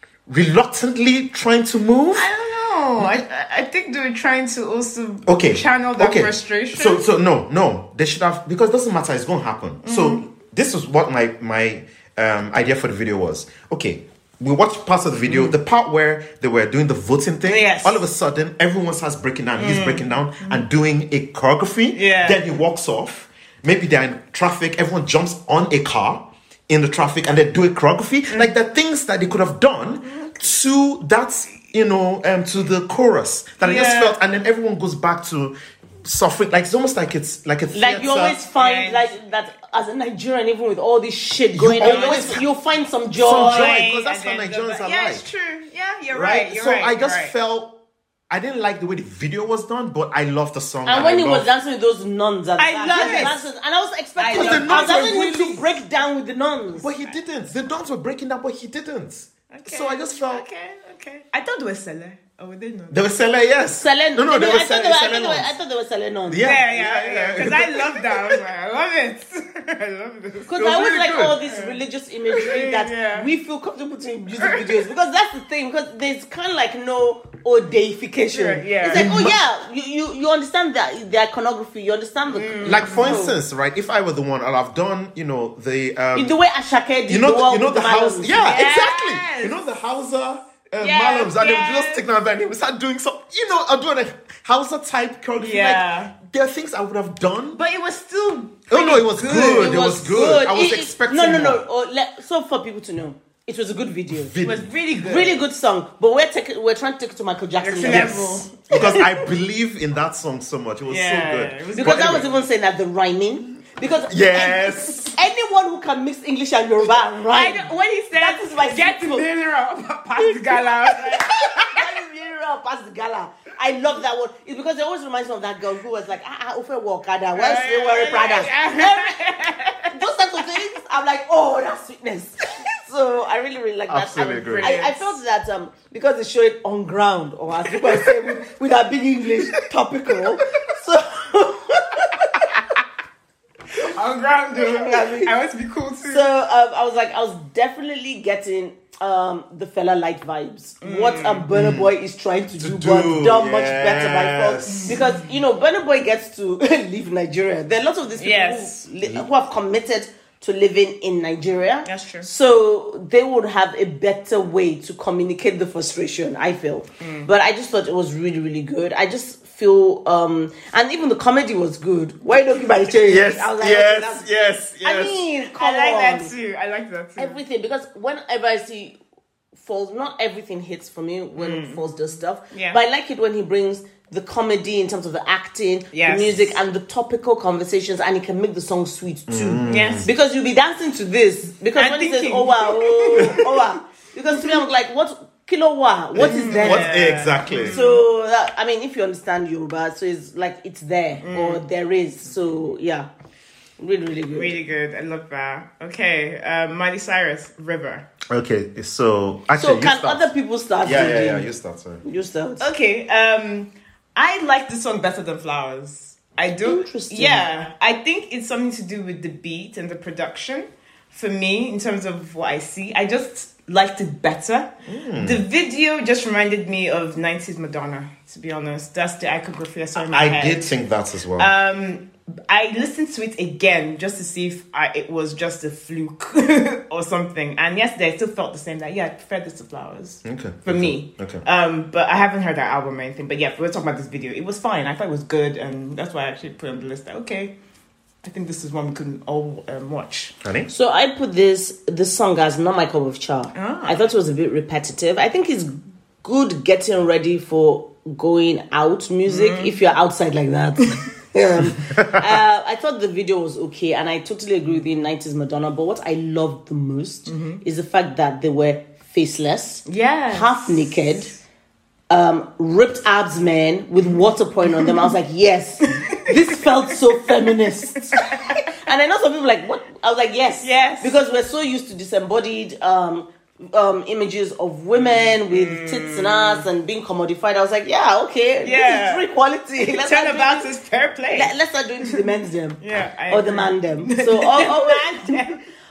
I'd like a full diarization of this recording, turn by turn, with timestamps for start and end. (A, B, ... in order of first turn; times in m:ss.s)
0:00.3-0:02.3 A
0:02.2-0:07.0 B
0:05.3-0:38.4 A
0:09.8-0:10.2 B
0:15.3-0:15.6 B
0:17.4-0:18.0 B
0:19.6-0:20.6 B
0:21.9-0:22.4 B
0:33.6-0:34.2 B
0:37.7-0:43.8 C
0:38.5-0:39.1 B
0:41.5-0:42.4 A
0:41.8-0:42.4 B
0:43.2-0:45.2 A
0:43.3-0:47.3 B
0:46.1-0:47.7 A
0:48.3-0:51.5 A
0:50.8-0:56.9 C
0:52.6-0:53.4 B
0:52.9-0:53.4 A
0:54.2-0:55.2 B
0:54.3-0:55.8 A
0:56.8-1:00.4 A
0:59.5-1:03.1 B
1:02.9-1:05.5 A
1:03.7-1:06.6 C
1:06.3-1:08.4 A
1:06.4-1:10.6 B
1:10.5-1:23.4 C
1:10.5-1:11.4 A
1:11.4-1:13.3 B
1:14.4-1:14.8 B
1:18.3-1:19.1 B
1:18.8-1:19.4 A
1:22.3-1:23.2 B
1:22.6-1:26.3 A
1:26.1-1:28.6 C
1:27.1-1:37.6 A
1:28.4-1:29.6 B
1:30.7-1:32.0 B
1:35.4-1:36.1 B
1:37.5-1:39.8 B
1:38.7-1:41.6 A
1:39.3-1:44.4 C
1:44.1-1:44.7 A
1:44.4-1:45.4 B
1:44.9-1:49.1 C
1:47.6-1:48.8 B
1:47.8-1:52.3 A
1:50.9-1:52.3 B
1:51.7-1:59.3 C
1:54.1-1:55.1 A
1:57.3-2:01.7 B
2:00.2-2:09.3 C
2:07.3-2:09.9 B
2:09.9-2:22.4 C
2:13.9-2:14.8 A
2:14.3-2:15.2 B
2:17.7-2:18.2 B
2:23.8-2:26.3 B
2:24.5-2:25.3 C
2:26.0-2:54.3 C
2:30.8-2:31.4 B
2:31.5-2:31.9 A
2:32.6-2:35.0 A
2:34.6-2:35.3 B
2:38.2-2:38.8 B
2:39.0-2:39.3 A
2:41.8-2:42.3 B
2:47.0-2:47.3 B
2:53.0-2:55.2 A
2:54.8-2:56.3 C
2:55.4-2:57.4 B
2:57.2-2:59.0 C
2:59.6-3:16.9 C
3:01.4-3:02.8 B
3:05.9-3:06.6 B
3:09.3-3:10.1 A
3:09.7-3:10.1 B
3:11.8-3:13.6 B
3:16.1-3:17.8 A
3:16.2-3:18.0 B
3:17.7-3:23.1 C
3:21.2-3:21.6 B
3:23.8-3:24.5 C
3:24.3-3:28.1 B
3:28.3-3:30.3 A
3:29.5-3:31.5 C
3:30.8-3:32.0 A
3:32.0-3:32.7 C
3:32.6-3:50.7 B
3:36.6-3:37.5 C
3:44.9-3:45.4 A
3:50.0-3:51.5 A
3:51.4-4:07.5 B
4:00.2-4:01.4 A
4:08.2-4:10.3 B
4:10.4-4:10.7 A
4:10.7-4:31.3 C
4:13.5-4:14.0 B
4:19.2-4:19.7 B
4:21.8-4:22.3 A
4:27.3-4:27.6 B
4:29.8-4:31.1 B
4:32.1-4:50.7 C
4:34.7-4:35.1 B
4:35.8-4:37.1 B
4:38.0-4:38.6 B
4:40.6-4:41.1 B
4:44.9-4:46.6 B
4:48.6-4:49.3 B
4:49.8-4:52.2 B
4:51.3-4:55.6 C
4:52.8-4:55.6 B